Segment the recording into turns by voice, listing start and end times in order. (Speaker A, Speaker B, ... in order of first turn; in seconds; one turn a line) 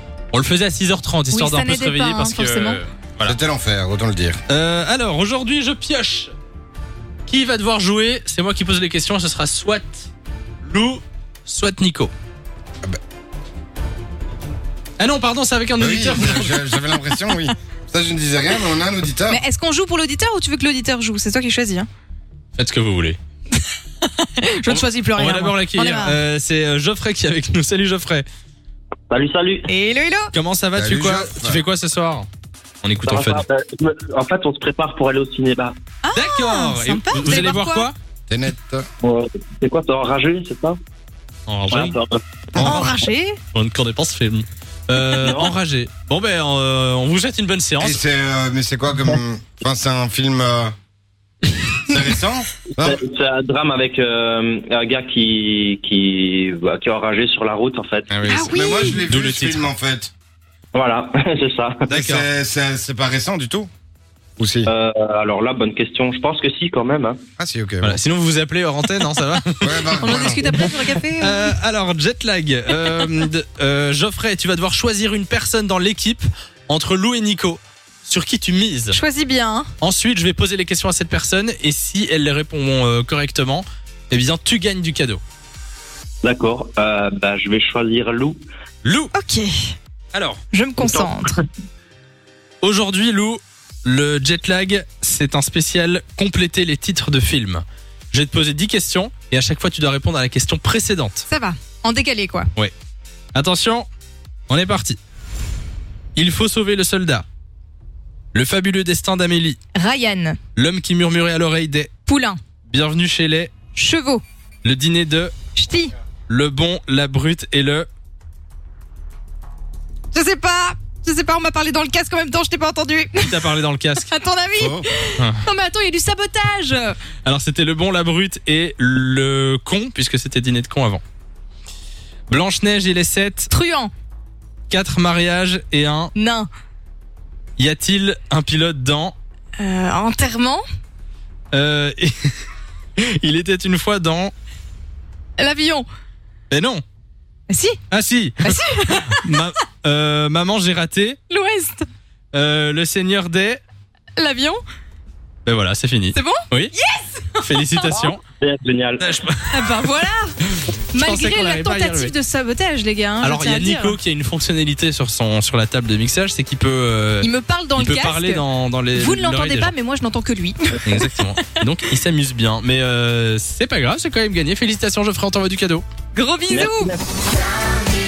Speaker A: 0.3-3.4
Speaker B: 1.3-2.8
Speaker C: 3.2-4.4
Speaker A: 4.5-6.3
Speaker A: 7.3-10.1
Speaker A: 10.6-12.1
Speaker A: 15.0-16.6
Speaker C: 15.8-19.4
Speaker B: 19.3-21.9
Speaker A: 22.6-23.2
Speaker B: 23.5-26.2
Speaker A: 24.7-28.3
Speaker D: 29.1-29.7
Speaker B: 29.7-30.3
Speaker A: 30.3-32.3
Speaker C: 30.8-31.6
Speaker A: 32.8-33.4
Speaker D: 33.1-35.8
Speaker B: 36.0-37.9
Speaker A: 36.1-38.0
Speaker C: 38.3-38.9
Speaker D: 39.0-40.8
Speaker A: 41.5-41.9
Speaker D: 41.7-42.2
Speaker C: 42.5-42.9
Speaker B: 42.6-43.4
Speaker A: 42.6-42.9
Speaker A: 43.5-48.0
Speaker B: 45.0-45.4
Speaker D: 45.2-45.5
Speaker C: 47.8-50.7
Speaker C: 51.8-53.0
Speaker D: 52.8-58.1
Speaker A: 58.1-58.5
Speaker B: 58.3-59.0
Speaker C: 58.3-60.1
Speaker A: 59.1-59.7
Speaker D: 60.7-61.8
Speaker A: 61.9-62.3
Speaker C: 61.9-63.7
Speaker C: 64.4-64.7
Speaker D: 64.7-67.2
Speaker C: 67.4-68.0
Speaker A: 67.8-70.6
Speaker C: 69.6-70.5
Speaker B: 70.0-71.5
Speaker A: 71.2-79.0
Speaker B: 72.8-73.1
Speaker B: 78.9-79.7
Speaker A: 79.8-85.2
Speaker D: 86.2-88.4
Speaker A: 88.8-89.1
Speaker B: 89.2-89.5
Speaker A: 90.1-90.4
Speaker B: 90.5-91.4
Speaker D: 90.8-91.3
Speaker A: 92.6-101.3
Speaker B: 101.3-102.5
Speaker A: 103.3-103.9
Speaker A: 104.5-105.0
Speaker A: 106.2-107.3
Speaker A: 108.3-109.6
Speaker B: 109.8-110.4
Speaker A: 110.5-111.9
Speaker B: 112.1-112.4
Speaker A: 112.7-113.6
Speaker B: 113.7-114.2
Speaker A: 114.6-115.3
Speaker B: 115.6-115.9
Speaker A: 116.3-117.9
Speaker B: 120.1-123.5
Speaker A: 123.2-124.1
Speaker B: 124.1-127.0
Speaker C: 124.5-124.9
Speaker A: 125.2-125.4
Speaker A: 127.2-131.0
Speaker A: 132.3-133.5
Speaker B: 133.5-133.9
Speaker A: 134.7-136.1
Speaker B: 136.2-136.5
Speaker A: 137.6-139.2
Speaker B: 139.6-140.6
Speaker A: 141.5-142.3
Speaker A: 143.0-144.3
Speaker B: 145.4-145.9
Speaker A: 146.5-146.8
Speaker B: 147.5-147.8
Speaker A: 147.9-151.2
Speaker B: 148.4-149.4
Speaker B: 151.3-151.8
Speaker A: 152.3-153.6
Speaker B: 154.2-154.6
Speaker A: 155.5-156.7
Speaker B: 156.1-157.9
Speaker A: 157.4-158.2
Speaker D: 158.0-159.1
Speaker A: 159.0-159.9
Speaker B: 159.5-160.4
Speaker A: 160.5-162.1
Speaker B: 160.9-164.0
Speaker A: 163.2-169.7
Speaker B: 167.2-171.4
Speaker A: 170.8-175.8
Speaker B: 176.1-176.9
Speaker D: 176.5-177.2